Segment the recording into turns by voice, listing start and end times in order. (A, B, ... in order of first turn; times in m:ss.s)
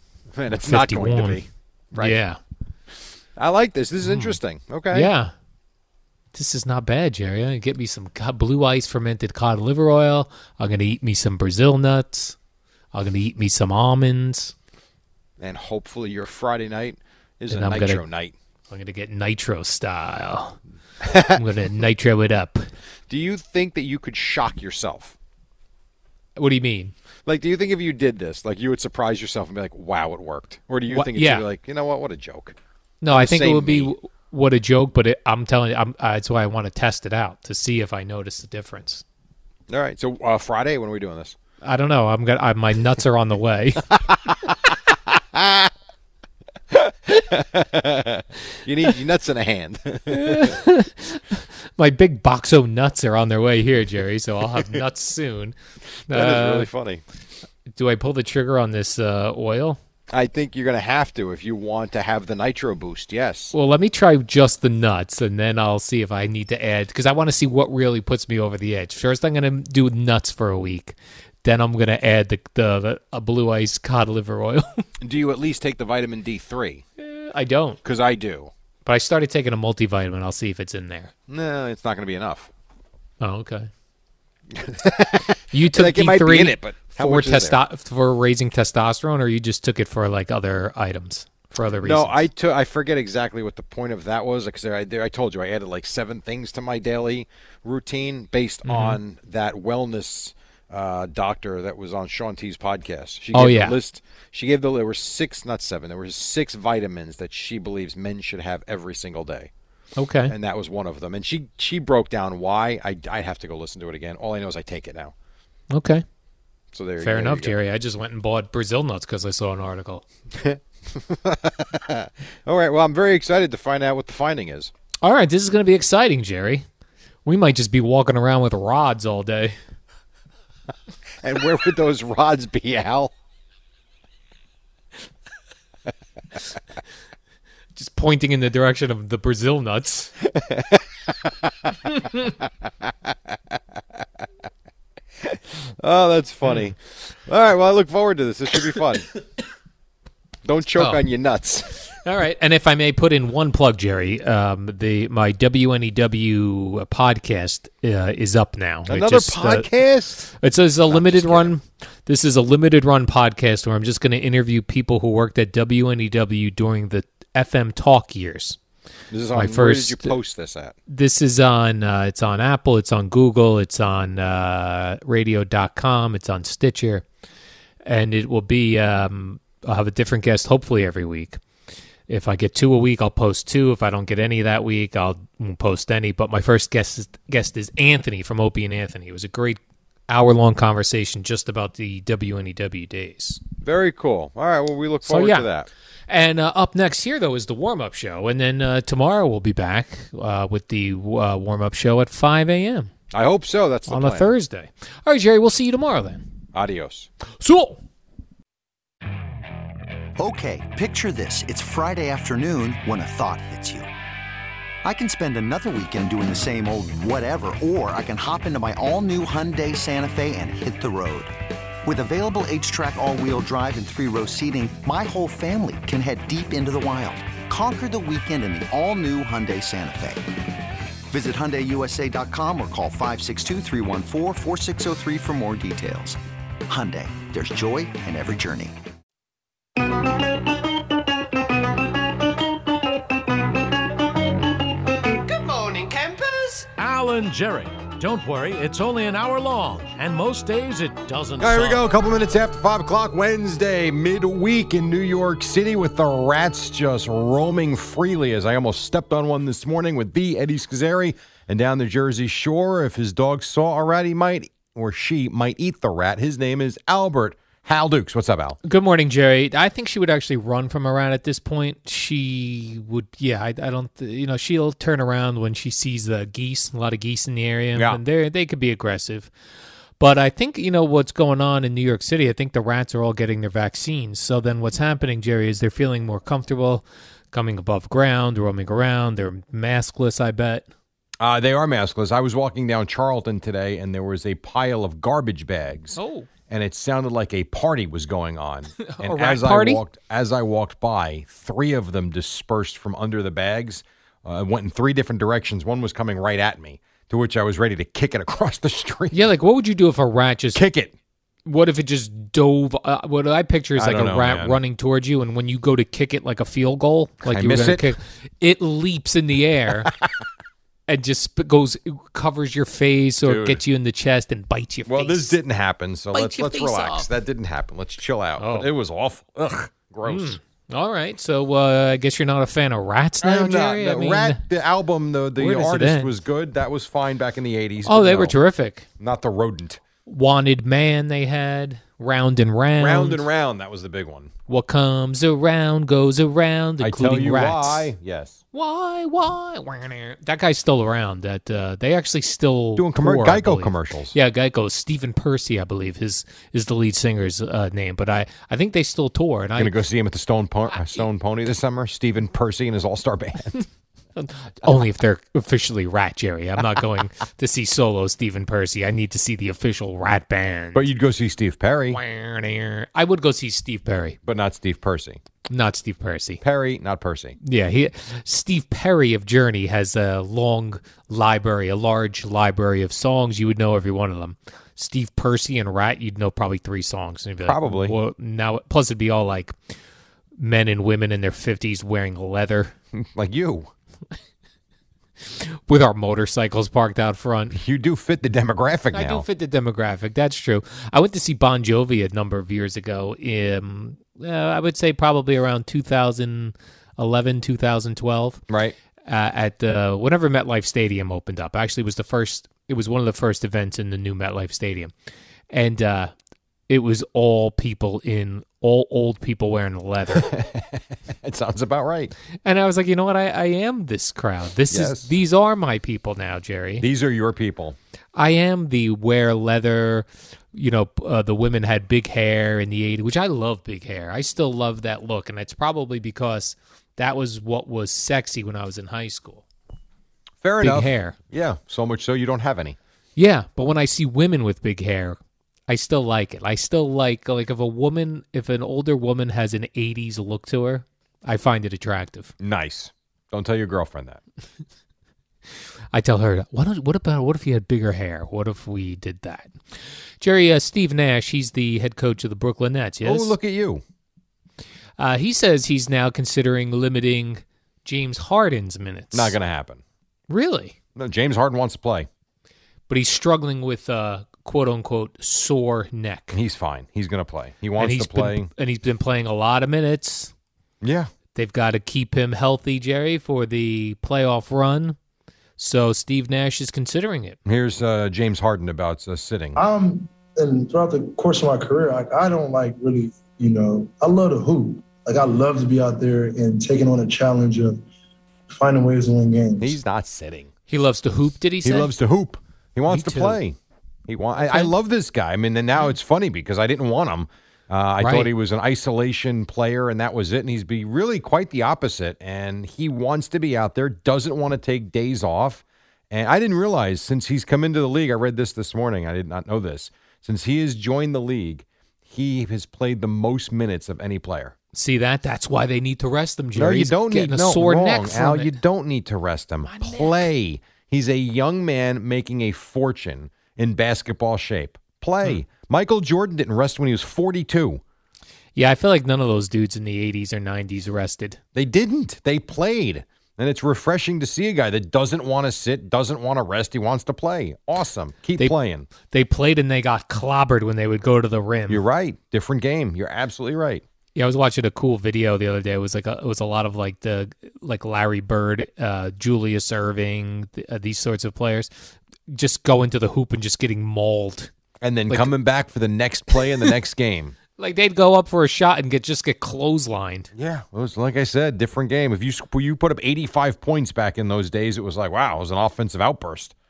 0:00.3-0:02.2 A
0:00.5-0:01.4 B
0:02.0-0:02.4 B
0:03.4-0:05.1 A
0:04.0-0:04.4 B
0:04.9-0:05.3 B
0:06.3-0:12.3 B
0:12.9-0:14.5 B
0:15.4-0:18.3 A
0:17.5-0:18.0 B
0:18.7-0:20.6 B
0:21.0-0:21.4 A
0:21.3-0:22.7 B
0:23.1-0:25.1 A
0:26.4-0:26.9 B
0:27.2-0:32.6 A
0:30.9-0:31.4 B
0:33.0-0:39.0 B
0:33.1-0:33.9 A
0:39.7-0:41.4 A
0:41.6-0:43.9 B
0:45.3-0:45.7 A
0:46.7-0:50.6 A
0:50.1-0:55.5 B
0:56.1-0:57.0 A
0:56.1-0:56.7 B
0:57.7-0:59.8 B
1:00.1-1:03.5 A
1:03.5-1:14.8 B
1:15.0-1:16.8 A
1:17.0-1:17.8 B
1:17.8-1:18.5 A
1:18.8-1:21.1 B
1:21.3-1:22.5 A
1:23.2-1:23.7 B
1:24.5-1:27.6 A
1:25.5-1:32.2 B
1:31.8-1:49.5 A
1:38.6-1:39.0 B
1:43.3-1:43.8 B
1:50.0-1:50.3 B
1:50.3-1:55.1 A
1:55.7-1:56.0 B
1:56.7-1:57.5 A
1:57.0-2:00.0 B
2:00.4-2:04.7 A
2:05.0-2:06.6 B
2:07.2-2:09.6 B
2:11.2-2:13.1 A
2:17.8-2:20.1 B
2:20.3-2:20.8 A
2:21.9-2:22.2 B
2:25.3-2:29.1 A
2:30.4-2:31.8 A
2:30.8-2:31.0 B
2:31.9-2:39.7 B
2:38.9-2:40.3 A
2:40.4-2:48.6 B
2:40.9-2:41.5 A
2:49.1-2:50.7 A
2:49.3-2:50.1 B
2:50.9-2:57.0 B
2:57.8-3:01.4 B
3:02.1-3:13.4 B
3:13.6-3:15.7 A
3:15.0-3:15.4 B
3:16.1-3:22.9 B
3:23.1-3:24.3 A
3:23.9-3:26.2 B
3:26.5-3:27.1 A
3:27.4-3:27.8 B
3:30.2-3:33.9 C
3:34.8-3:41.3 C
3:41.8-3:50.3 C
3:51.1-3:58.8 C
4:05.4-4:06.6 A
4:06.8-4:11.8 D
4:11.4-4:28.6 A
4:28.6-4:39.3 B
4:37.7-4:38.0 A
4:40.0-4:50.6 B
4:51.2-4:56.0 A
4:56.0-4:56.3 B
4:56.5-5:09.2 A
4:58.8-4:59.8 B
5:09.1-5:10.6 B
5:10.5-5:10.9 A
5:11.4-5:19.9 B
5:13.8-5:14.6 A
5:17.3-5:17.9 A
5:20.9-5:25.4 B
5:23.2-5:23.6 A
5:24.9-5:30.4 A
5:26.1-5:27.1 B
5:28.4-5:28.7 B
5:30.0-5:34.4 B
5:33.2-5:38.4 A
5:35.4-5:36.1 B
5:37.8-5:38.8 B
5:39.0-5:39.8 A
5:40.1-5:43.2 B
5:42.8-5:44.3 A
5:44.5-5:47.9 B
5:46.8-5:48.4 A
5:48.5-5:59.7 B
5:52.8-5:54.1 A
5:59.6-6:03.6 A
6:00.7-6:01.0 B
6:04.2-6:10.8 B
6:10.7-6:12.0 A
6:11.9-6:14.2 B
6:14.2-6:15.2 A
6:15.5-6:16.4 B
6:16.4-6:17.4 A
6:17.4-6:29.6 B
6:27.4-6:27.9 A
6:30.4-6:32.7 B
6:32.9-6:33.7 A
6:35.3-6:37.6 B
6:37.5-6:39.2 A
6:38.9-6:48.4 B
6:48.5-6:48.7 A
6:49.0-6:54.9 B
6:55.5-6:56.1 B
6:56.7-7:00.3 B
7:00.1-7:02.1 A
7:02.4-7:06.8 B
7:04.7-7:05.1 A
7:06.8-7:07.8 A
7:08.2-7:19.4 B
7:20.4-7:22.8 A
7:20.6-7:21.2 B
7:23.2-7:32.3 B
7:32.4-7:34.2 A
7:35.9-7:39.5 B
7:40.2-7:43.3 B
7:43.0-7:43.8 A
7:45.0-7:49.3 B
7:49.1-7:49.8 A
7:50.3-7:50.7 B
7:51.0-7:52.1 A
7:52.9-7:56.4 B
7:56.3-7:58.5 A
7:57.8-8:00.3 B
8:00.8-8:01.1 A
8:01.3-8:05.0 B
8:05.6-8:07.4 B
8:07.4-8:09.6 A
8:09.5-8:17.8 E
8:18.5-8:19.8 E
8:19.6-8:20.5 A
8:20.7-8:21.9 B
8:21.6-8:23.5 A
8:22.9-8:23.4 B
8:24.1-8:44.5 A
8:24.4-8:24.7 B
8:28.0-8:28.3 B
8:44.7-8:48.6 B
8:46.5-8:57.8 A
8:49.6-8:50.3 B
8:58.6-9:01.4 B
9:01.5-9:08.9 A
9:08.4-9:11.8 B
9:11.7-9:13.8 A
9:14.2-9:21.7 B
9:22.3-9:24.5 B
9:24.8-9:27.4 A
9:26.4-9:26.7 B
9:27.6-9:30.3 B
9:30.3-9:36.5 A